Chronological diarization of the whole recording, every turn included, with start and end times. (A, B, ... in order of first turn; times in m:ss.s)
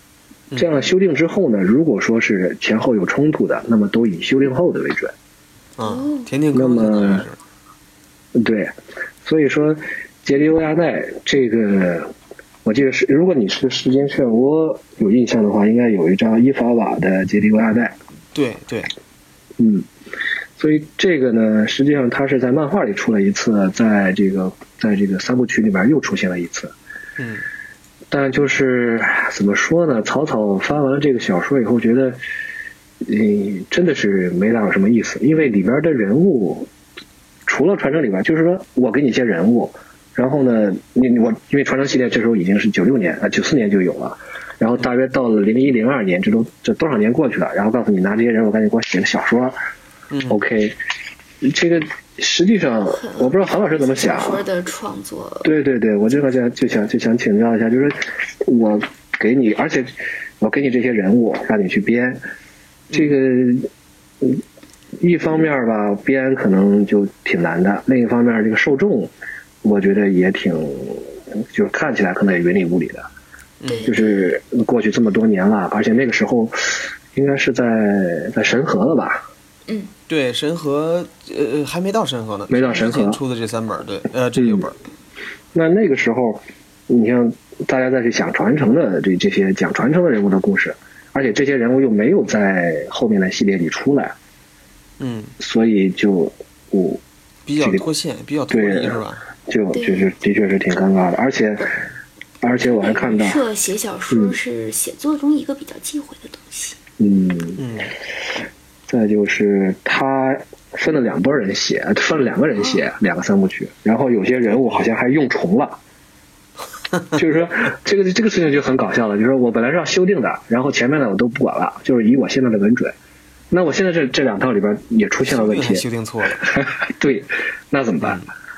0:00.5-0:00.8 A
0:00.6-0:05.1 B
0:05.8-0:07.4 A
0:05.8-0:06.3 C
0:06.5-0:07.3 B
0:08.4-0:08.7 B
0:09.2-0:12.1 B
0:12.6-0:18.0 B
0:18.3-0:18.9 A
0:19.6-0:19.9 B
0:20.6-0:26.7 B
0:27.2-0:27.4 A
0:28.1-0:32.2 B
0:33.0-0:36.7 B
0:37.5-0:49.6 B
0:50.1-0:50.4 A
0:50.3-0:50.8 B
0:51.4-0:54.4 B
0:52.9-0:55.5 C
0:55.4-1:02.2 B
1:02.9-1:03.7 B
1:05.0-1:09.1 B
1:09.6-1:13.1 B
1:13.6-1:14.0 A
1:13.6-1:14.2 C
1:13.9-1:19.2 B
1:20.1-1:24.8 A
1:22.5-1:23.2 B
1:24.4-1:24.7 B
1:25.5-1:34.2 B
1:35.0-1:35.4 A
1:35.4-1:37.0 B
1:37.5-1:39.2 A
1:37.6-1:37.9 B
1:38.5-1:41.8 B
1:39.7-1:40.1 C
1:42.4-1:43.4 B
1:42.6-1:46.8 C
1:44.1-1:44.4 B
1:47.0-1:47.6 B
1:47.6-1:47.9 A
1:48.9-1:55.8 B
1:57.2-2:02.9 B
2:03.5-2:05.8 B
2:05.2-2:06.4 A
2:06.4-2:08.2 B
2:08.0-2:08.3 A